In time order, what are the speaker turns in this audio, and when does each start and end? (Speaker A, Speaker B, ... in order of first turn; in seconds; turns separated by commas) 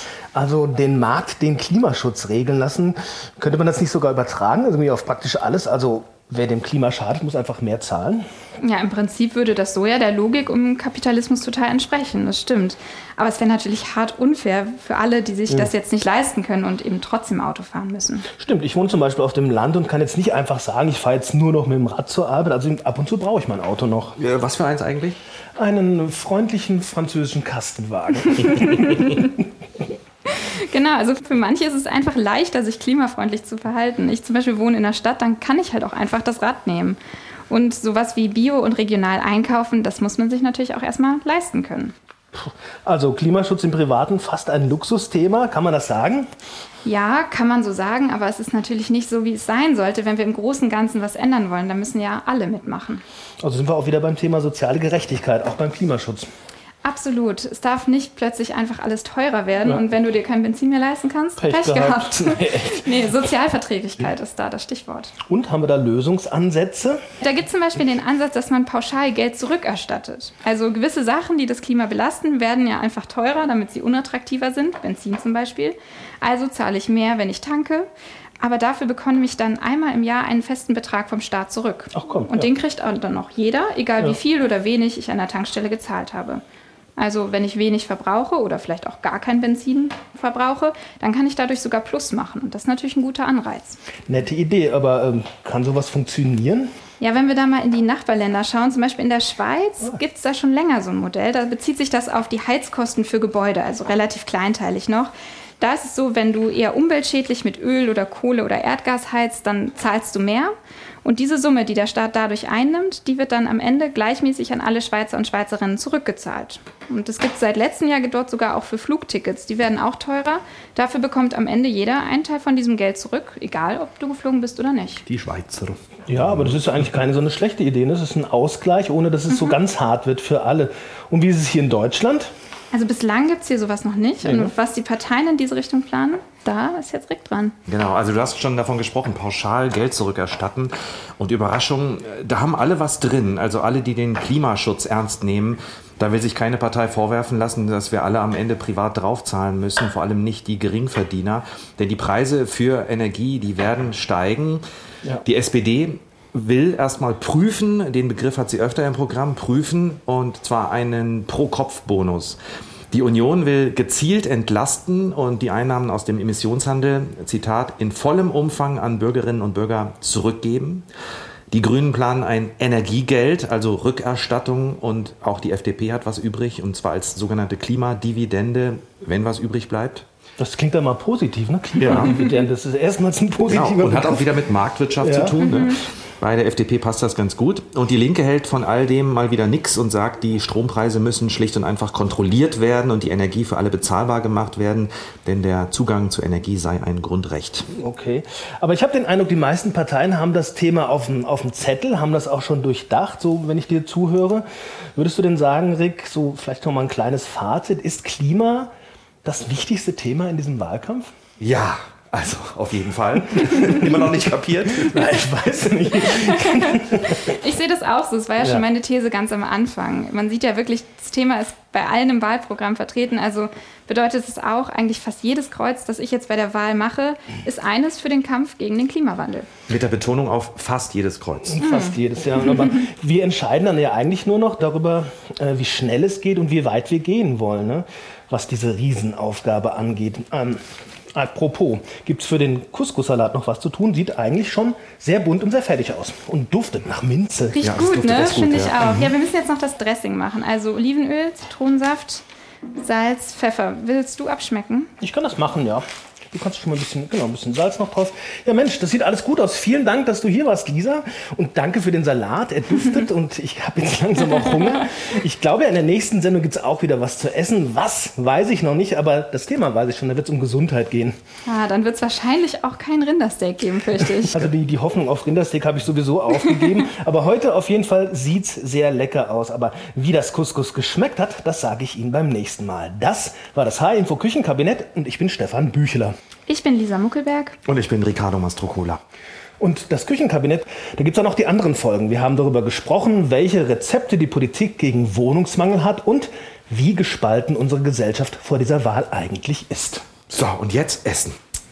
Speaker A: 0.3-8.3, Speaker B: 8.6-18.3, Speaker A: 18.3-24.2, Speaker C: 24.2-25.2, Speaker A: 25.6-29.2, Speaker B: 28.2-29.3, Speaker B: 30.3-37.0, Speaker B: 37.5-41.9, Speaker A: 42.3-46.3, Speaker B: 46.9-53.0, Speaker A: 53.4-56.3, Speaker B: 56.8-65.1, Speaker A: 61.4-62.9, Speaker A: 65.3-67.0, Speaker B: 67.2-77.9, Speaker B: 78.4-86.4, Speaker A: 81.9-82.5, Speaker B: 87.0-93.8, Speaker A: 94.1-96.7, Speaker B: 97.0-110.5, Speaker B: 111.0-125.0, Speaker C: 125.1-126.6, Speaker A: 126.1-132.3, Speaker B: 129.3-129.6, Speaker B: 132.7-137.6, Speaker A: 134.2-134.5, Speaker C: 137.7-154.6, Speaker C: 155.2-162.4, Speaker C: 162.9-170.8, Speaker C: 171.5-180.1, Speaker A: 180.4-184.3, Speaker C: 181.8-182.2, Speaker C: 183.5-197.7, Speaker A: 185.0-185.4, Speaker B: 185.4-185.8, Speaker A: 197.8-208.7, Speaker A: 209.2-211.1, Speaker C: 211.4-215.0, Speaker A: 213.6-213.9, Speaker A: 214.8-217.3, Speaker B: 216.2-229.5, Speaker C: 229.7-231.6, Speaker A: 231.4-247.6, Speaker B: 231.6-232.8, Speaker B: 247.5-252.2, Speaker C: 247.6-249.1, Speaker B: 252.8-254.9, Speaker A: 255.0-271.2, Speaker B: 271.5-274.5, Speaker A: 274.0-286.1, Speaker B: 286.5-287.6, Speaker C: 287.7-289.0, Speaker A: 289.6-300.1, Speaker C: 300.3-301.4